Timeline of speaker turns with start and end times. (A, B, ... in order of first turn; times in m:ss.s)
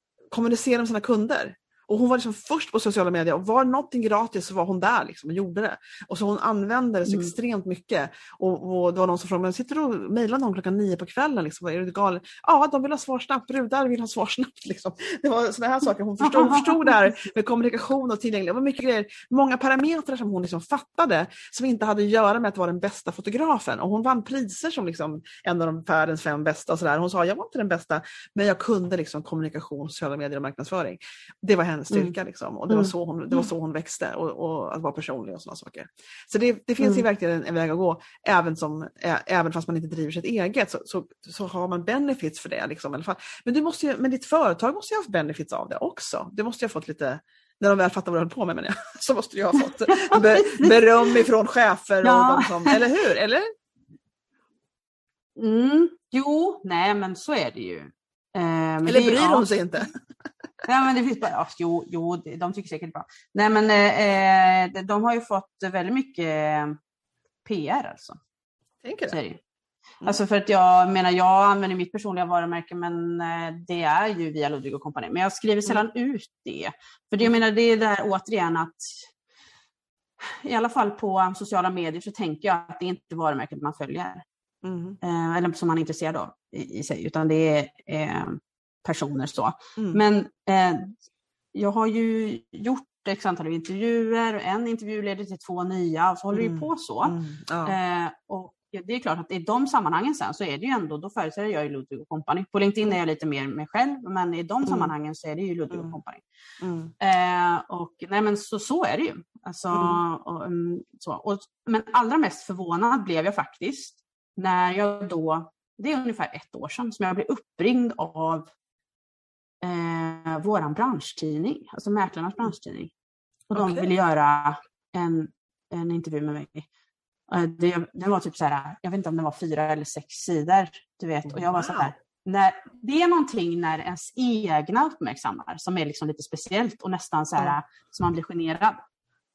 0:00.3-0:53.5 A
0:07.1-0:07.3 B
0:16.2-0:16.9 B
0:49.8-0:51.1 B
0:52.0-0:52.8 B
0:55.4-0:59.5 B
0:58.8-0:59.9 A
1:00.6-1:06.8 B
1:07.4-1:08.2 B
1:08.8-1:09.2 A
1:09.1-1:09.4 B
1:10.0-1:19.0 B
1:20.4-1:24.2 B
1:24.6-1:25.0 A
1:25.0-1:31.0 B
1:31.5-1:46.2 B
1:36.3-1:37.8 A
1:44.6-1:44.9 A
1:46.6-1:46.9 A
1:47.0-1:58.5 B
1:49.7-1:50.0 A
1:59.6-2:02.9 B
2:03.5-2:06.7 B
2:03.5-2:03.8 A
2:07.3-2:18.8 B
2:11.3-2:11.9 A